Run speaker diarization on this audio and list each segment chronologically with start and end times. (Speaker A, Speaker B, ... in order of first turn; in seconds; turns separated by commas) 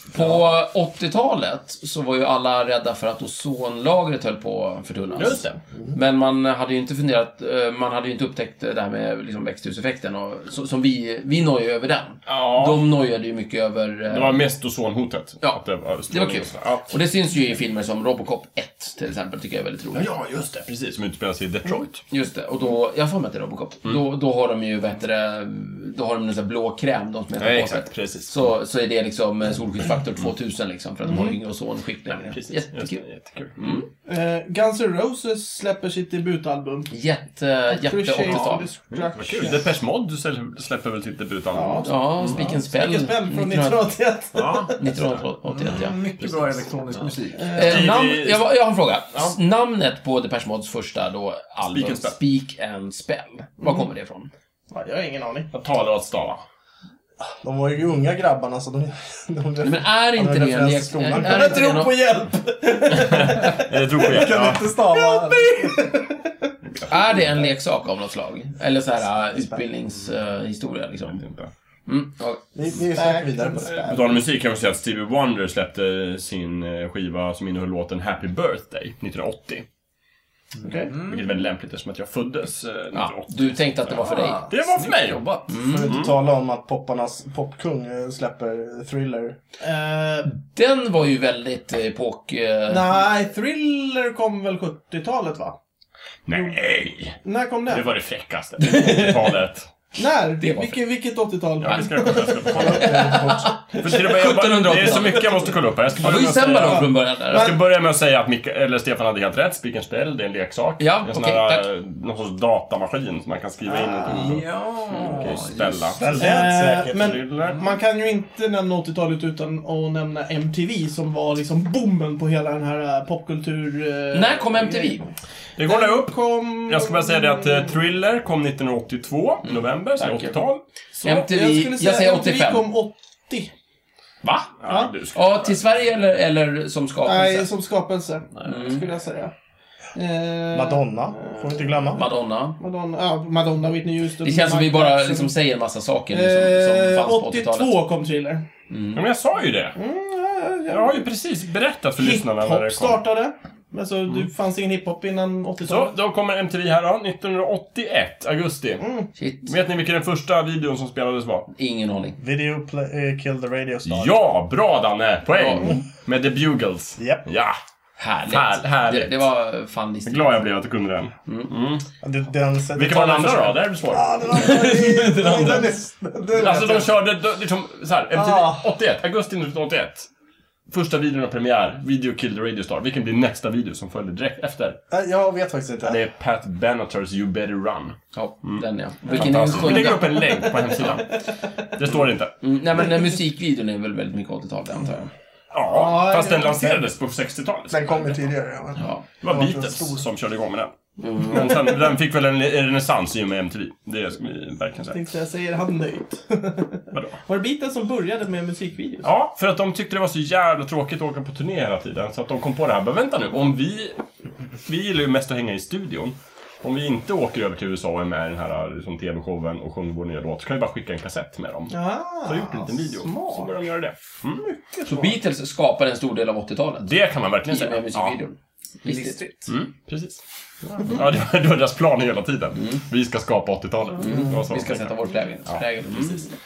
Speaker A: 0.1-14.4, Speaker B: 0.2-0.4, Speaker B: 5.2-5.6, Speaker B: 12.3-12.8, Speaker B: 14.1-16.9, Speaker A: 15.4-20.1, Speaker B: 19.9-22.0, Speaker A: 22.1-33.0, Speaker B: 27.4-28.3, Speaker C: 31.0-31.4, Speaker B: 32.3-33.8, Speaker A: 33.6-33.9, Speaker C: 34.1-36.9, Speaker A: 36.9-38.7, Speaker C: 37.7-39.7, Speaker B: 38.9-42.5, Speaker C: 41.5-44.8, Speaker A: 41.8-43.9, Speaker B: 44.4-45.2, Speaker A: 44.8-46.0, Speaker D: 45.5-47.6, Speaker B: 46.2-46.6, Speaker C: 47.4-47.9, Speaker A: 47.5-54.3, Speaker B: 47.6-48.4, Speaker B: 51.7-52.2, Speaker C: 54.7-55.5, Speaker B: 55.5-56.4, Speaker E: 57.2-61.6, Speaker A: 59.6-62.0, Speaker C: 61.1-66.5, Speaker B: 63.0-64.7, Speaker E: 64.0-65.9, Speaker A: 66.9-71.2, Speaker B: 71.1-71.5, Speaker A: 71.9-72.4, Speaker E: 72.5-73.9, Speaker C: 72.9-74.2, Speaker B: 73.7-79.7, Speaker C: 80.6-80.9, Speaker D: 80.9-81.3, Speaker B: 81.0-85.2, Speaker A: 82.9-84.4, Speaker D: 84.0-85.6, Speaker A: 85.5-86.0, Speaker E: 85.6-89.4, Speaker B: 85.9-86.1, Speaker C: 89.6-90.3, Speaker A: 90.3-92.9, Speaker C: 92.7-95.6, Speaker B: 96.3-99.7, Speaker C: 96.3-96.6, Speaker C: 97.2-97.8, Speaker A: 98.6-99.3, Speaker C: 100.0-102.8, Speaker A: 100.4-100.8, Speaker B: 101.6-103.1, Speaker E: 102.5-103.6, Speaker A: 102.8-107.5, Speaker B: 103.8-116.4, Speaker C: 106.6-107.6, Speaker A: 110.8-111.7, Speaker D: 114.0-116.2, Speaker E: 116.0-117.2, Speaker C: 116.2-125.1, Speaker B: 117.0-117.6, Speaker A: 124.1-125.1, Speaker B: 125.6-130.6, Speaker C: 125.7-127.8, Speaker A: 129.5-130.4, Speaker C: 131.0-133.5, Speaker A: 131.0-132.7, Speaker A: 134.2-134.5, Speaker B: 134.6-135.6, Speaker C: 134.7-134.9, Speaker A: 135.1-137.5, Speaker C: 137.1-139.3, Speaker A: 138.4-138.8, Speaker C: 139.9-142.1, Speaker E: 140.5-142.1, Speaker A: 141.9-142.6, Speaker C: 142.6-145.3, Speaker A: 144.2-147.8, Speaker C: 146.1-148.5, Speaker A: 148.7-149.0, Speaker B: 148.9-149.8, Speaker C: 149.8-151.1, Speaker B: 150.7-153.0, Speaker C: 152.0-155.9, Speaker B: 155.6-158.8, Speaker C: 158.8-159.1, Speaker A: 159.2-159.5, Speaker B: 159.5-161.5, Speaker A: 161.5-162.2, Speaker E: 162.2-164.1, Speaker B: 163.8-167.6, Speaker A: 165.3-165.8, Speaker E: 167.0-167.3, Speaker A: 168.0-170.5, Speaker B: 168.3-169.3, Speaker B: 170.1-171.8, Speaker E: 172.0-177.0, Speaker B: 172.8-174.5, Speaker A: 174.3-175.7, Speaker B: 176.3-180.1, Speaker E: 178.1-178.7, Speaker B: 180.7-184.8, Speaker E: 184.9-186.0, Speaker B: 185.8-191.2, Speaker A: 188.1-190.2, Speaker C: 189.6-191.0, Speaker B: 191.7-192.4, Speaker A: 192.4-195.1, Speaker B: 195.5-198.1, Speaker C: 195.7-196.7, Speaker E: 197.7-200.0, Speaker B: 199.2-205.0, Speaker A: 201.0-201.6, Speaker C: 204.9-209.1, Speaker B: 206.9-207.2, Speaker B: 209.0-214.0, Speaker B: 214.7-224.4, Speaker C: 221.7-223.5, Speaker C: 224.4-225.2, Speaker A: 224.8-226.9, Speaker B: 226.9-228.2, Speaker A: 227.5-229.2, Speaker D: 228.8-229.5, Speaker B: 229.5-234.9, Speaker A: 232.6-232.8, Speaker C: 234.0-234.4, Speaker A: 234.0-236.3, Speaker B: 235.5-236.3